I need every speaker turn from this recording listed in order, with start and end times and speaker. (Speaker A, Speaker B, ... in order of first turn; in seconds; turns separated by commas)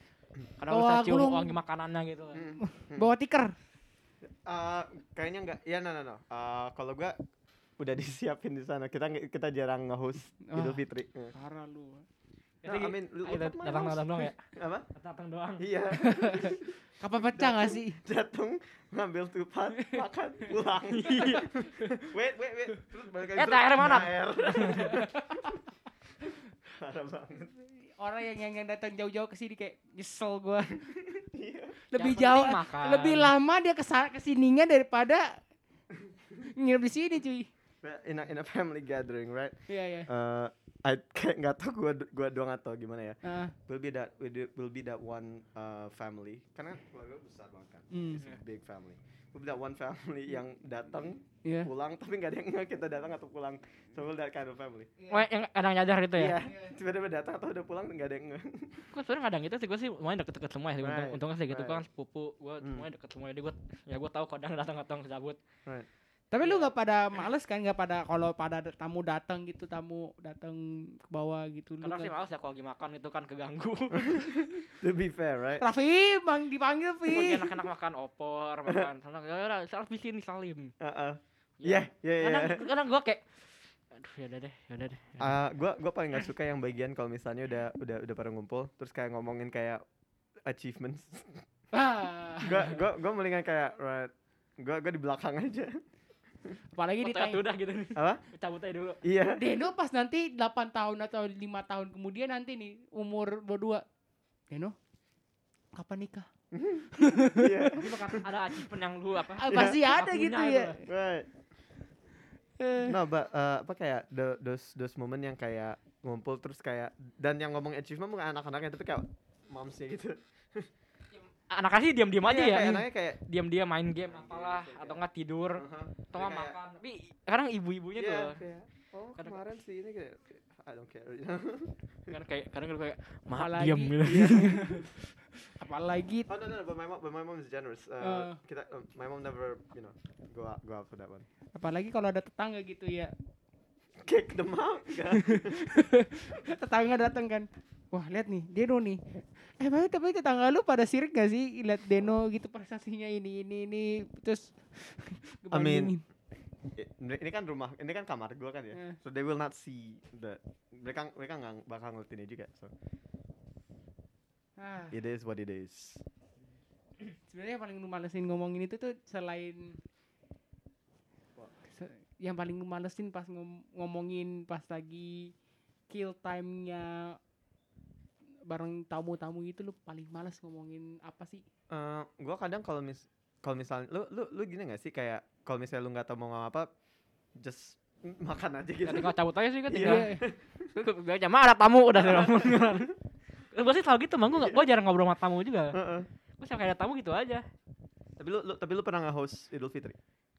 Speaker A: 0.6-2.5, Speaker B: 0.7-1.6, Speaker C: 2.3-3.1, Speaker B: 2.6-3.5, Speaker C: 4.2-7.2, Speaker C: 7.8-11.3, Speaker B: 10.4-12.1, Speaker A: 12.6-15.7, Speaker C: 12.6-14.9, Speaker C: 15.6-16.8, Speaker B: 15.9-18.0, Speaker C: 17.4-25.6, Speaker A: 20.9-22.0, Speaker A: 23.3-25.1, Speaker B: 24.7-25.6, Speaker C: 26.7-27.5, Speaker B: 27.8-30.9, Speaker C: 30.8-31.8, Speaker B: 31.9-35.4, Speaker A: 31.9-33.3, Speaker B: 36.4-37.5, Speaker C: 37.8-54.9, Speaker B: 39.7-40.1, Speaker B: 43.2-43.5, Speaker B: 47.9-48.2, Speaker B: 51.5-51.7, Speaker A: 55.1-56.4, Speaker C: 56.1-58.9, Speaker B: 56.4-56.7, Speaker A: 58.9-65.4, Speaker C: 60.8-61.8, Speaker C: 62.6-62.9, Speaker B: 66.3-72.1, Speaker A: 66.4-66.7, Speaker A: 71.8-74.5, Speaker C: 73.9-75.6, Speaker B: 75.6-77.6, Speaker A: 77.1-80.7, Speaker C: 80.8-82.7, Speaker A: 81.6-85.4, Speaker C: 85.2-89.8, Speaker C: 90.4-91.5, Speaker B: 91.7-92.7, Speaker C: 92.4-95.8, Speaker B: 96.8-97.4, Speaker A: 97.0-99.0, Speaker C: 98.0-98.2, Speaker C: 99.0-99.4, Speaker B: 99.3-103.8, Speaker B: 104.5-104.8, Speaker B: 105.8-106.3, Speaker C: 106.5-108.3, Speaker B: 106.9-107.6, Speaker A: 107.7-110.8, Speaker B: 109.4-110.9, Speaker C: 109.5-109.8, Speaker C: 110.9-111.3, Speaker B: 112.6-113.0, Speaker C: 112.9-120.7, Speaker A: 121.1-128.4, Speaker C: 122.2-123.2, Speaker C: 124.1-125.0, Speaker C: 125.6-126.6, Speaker C: 128.0-132.2, Speaker A: 129.2-129.4, Speaker A: 132.1-134.8, Speaker B: 133.3-134.9, Speaker C: 134.0-134.9, Speaker B: 135.4-136.3, Speaker C: 136.3-141.3, Speaker B: 138.0-138.4, Speaker B: 141.6-143.1, Speaker C: 144.0-145.9, Speaker B: 145.1-156.0, Speaker C: 155.5-155.9, Speaker C: 156.8-162.7, Speaker B: 158.7-159.0, Speaker B: 164.6-165.0, Speaker C: 164.9-166.0, Speaker B: 167.3-169.8, Speaker B: 171.6-175.3, Speaker B: 175.9-177.2, Speaker B: 178.5-181.4, Speaker C: 181.7-186.7, Speaker C: 187.4-189.1, Speaker A: 188.8-190.2, Speaker C: 189.7-190.7, Speaker B: 189.8-190.2, Speaker A: 190.7-192.9, Speaker C: 191.9-192.9, Speaker A: 193.5-195.8, Speaker C: 194.3-194.6, Speaker C: 195.7-196.1, Speaker A: 196.4-197.4, Speaker C: 198.2-200.0